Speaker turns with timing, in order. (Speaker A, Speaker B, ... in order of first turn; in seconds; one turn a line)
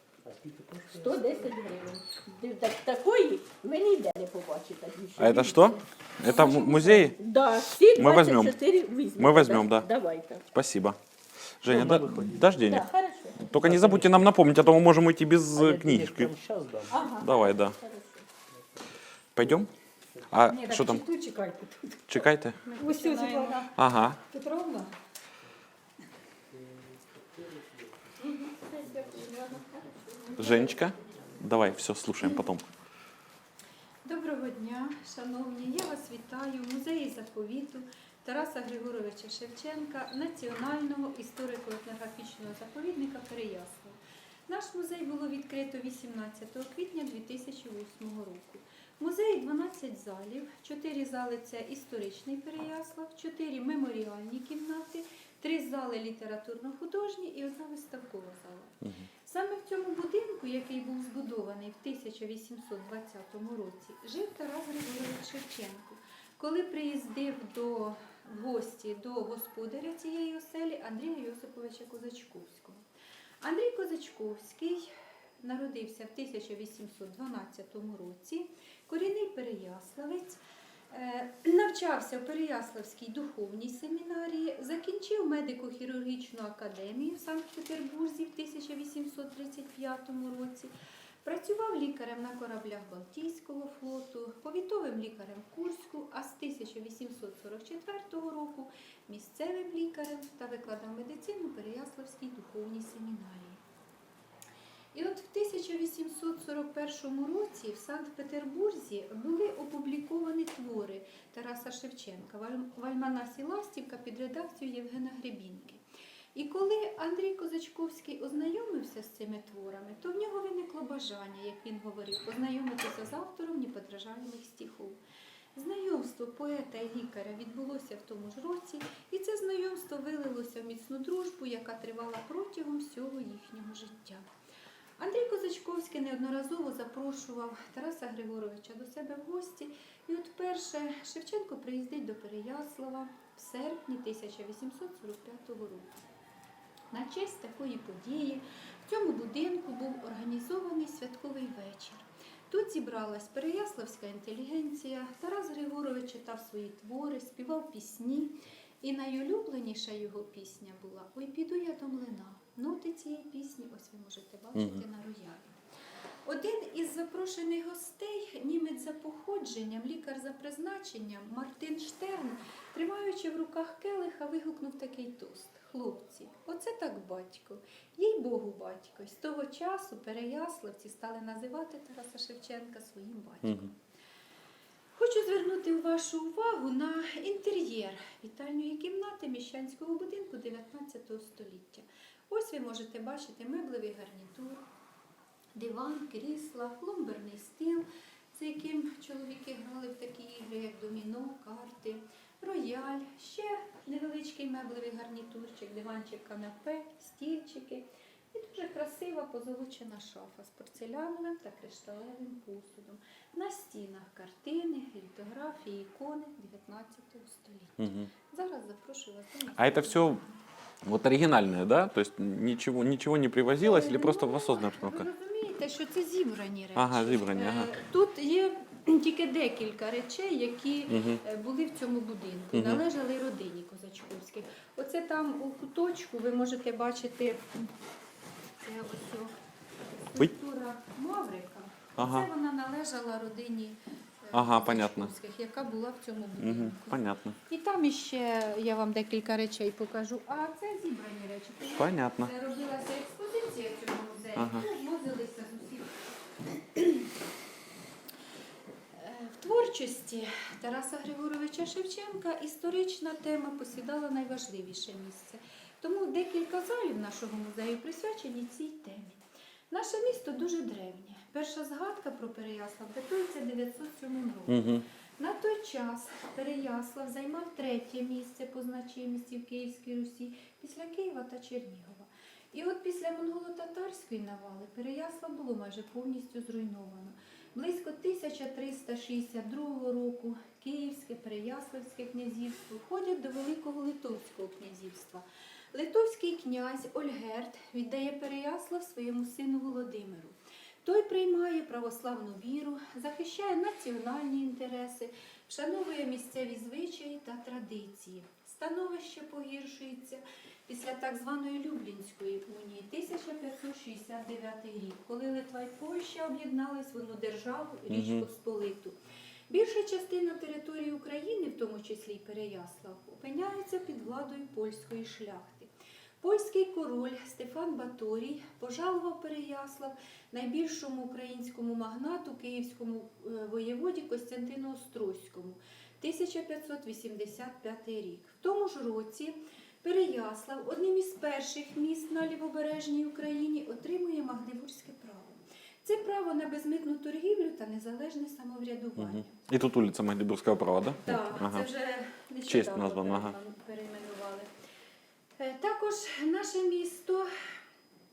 Speaker A: 0.2-1.5
Speaker B: 0.9-10.4
Speaker C: 5.2-7.2
Speaker C: 7.9-8.6
Speaker C: 9.2-9.9
Speaker C: 10.5-11.0
Speaker C: 11.6-12.9
Speaker A: 11.6-12.6
Speaker B: 12.7-13.4
Speaker C: 13.4-16.3
Speaker A: 13.5-14.1
Speaker A: 15.5-17.0
Speaker D: 16.9-17.2
Speaker B: 16.9-18.2
Speaker C: 17.2-17.8
Speaker C: 19.4-19.7
Speaker C: 20.3-21.1
Speaker D: 20.5-23.7
Speaker C: 22.1-22.6
Speaker E: 22.8-23.5
Speaker B: 22.8-23.5
Speaker C: 23.7-24.2
Speaker D: 24.3-24.9
Speaker B: 28.7-30.9
Speaker C: 30.4-32.7
Speaker E: 34.0-72.8
Speaker E: 73.4-74.9
Speaker E: 75.4-80.4
Speaker E: 80.9-90.7
Speaker E: 91.2-103.6
Speaker E: 104.9-115.8
Speaker E: 116.3-125.0
Speaker E: 125.5-134.3
Speaker E: 135.0-146.0
Speaker E: 146.9-165.6
Speaker C: 164.5-164.8
Speaker E: 166.2-183.8
Speaker E: 184.9-194.6
Speaker E: 195.5-220.4
Speaker C: 217.8-218.1
Speaker C: 219.6-220.2
Speaker C: 220.8-225.1
Speaker E: 223.6-237.6
Speaker C: 226.8-227.8
Speaker C: 230.9-231.2
Speaker C: 232.5-232.8
Speaker E: 238.6-239.3
Speaker E: 240.0-257.1
Speaker C: 241.9-242.3
Speaker C: 244.3-245.1
Speaker C: 246.4-247.4
Speaker C: 251.8-252.3
Speaker C: 254.3-254.6
Speaker E: 258.9-318.9
Speaker C: 274.5-274.8
Speaker C: 317.9-318.2
Speaker E: 319.5-325.7
Speaker E: 326.2-349.4
Speaker C: 349.0-351.7
Speaker E: 351.0-354.5
Speaker C: 352.5-353.3
Speaker E: 355.4-357.3